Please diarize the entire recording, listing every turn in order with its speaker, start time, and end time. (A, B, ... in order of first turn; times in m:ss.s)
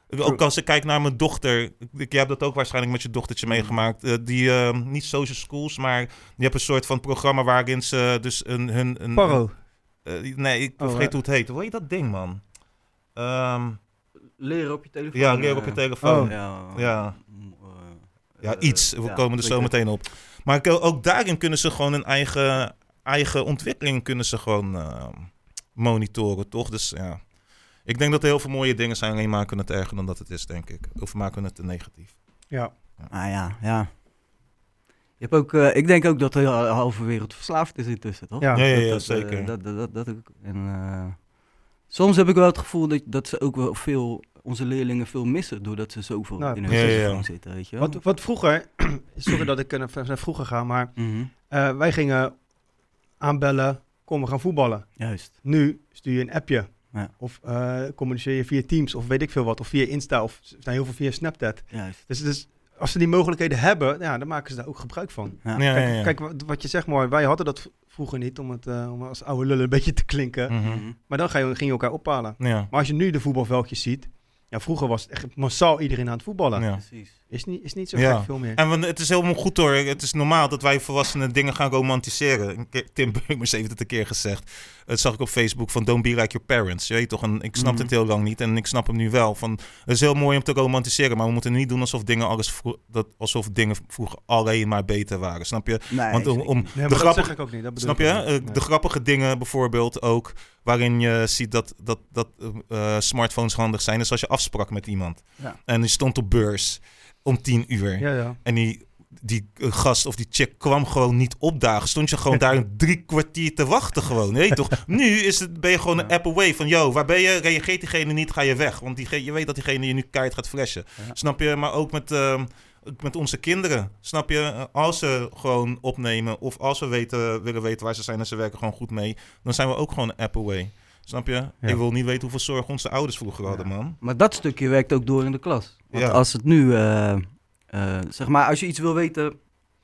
0:00.1-0:09.4 A
0:09.2-0:09.5 B
0:10.0-0:12.4 A
0:10.8-0:11.1 B
0:13.2-0:13.8 A
0:14.4-0:19.7 C
0:15.1-0:17.2 A
0:16.0-0:16.3 B
0:18.4-0:27.2 A
0:27.8-0:32.1 A
0:33.1-0:33.9 C
0:35.2-0:41.2 C
0:38.5-0:39.5 A
0:41.9-0:48.0 C
0:46.4-0:47.1 B
0:46.7-0:47.3 A
0:47.8-0:52.4 B
0:51.0-0:51.3 C
0:53.2-1:16.7 B
0:55.0-0:55.3 C
1:01.7-1:02.0 C
1:05.6-1:06.1 A
1:10.5-1:10.8 A
1:10.6-1:11.0 C
1:12.4-1:12.7 A
1:16.6-1:16.8 A
1:16.8-1:17.2 C
1:17.3-1:18.6 B
1:17.9-2:14.0 A
1:27.6-1:27.9 C
1:35.9-1:36.7 C
1:36.8-1:38.6 B
1:48.0-1:48.4 B
2:14.0-2:19.4 C
2:15.9-2:16.2 A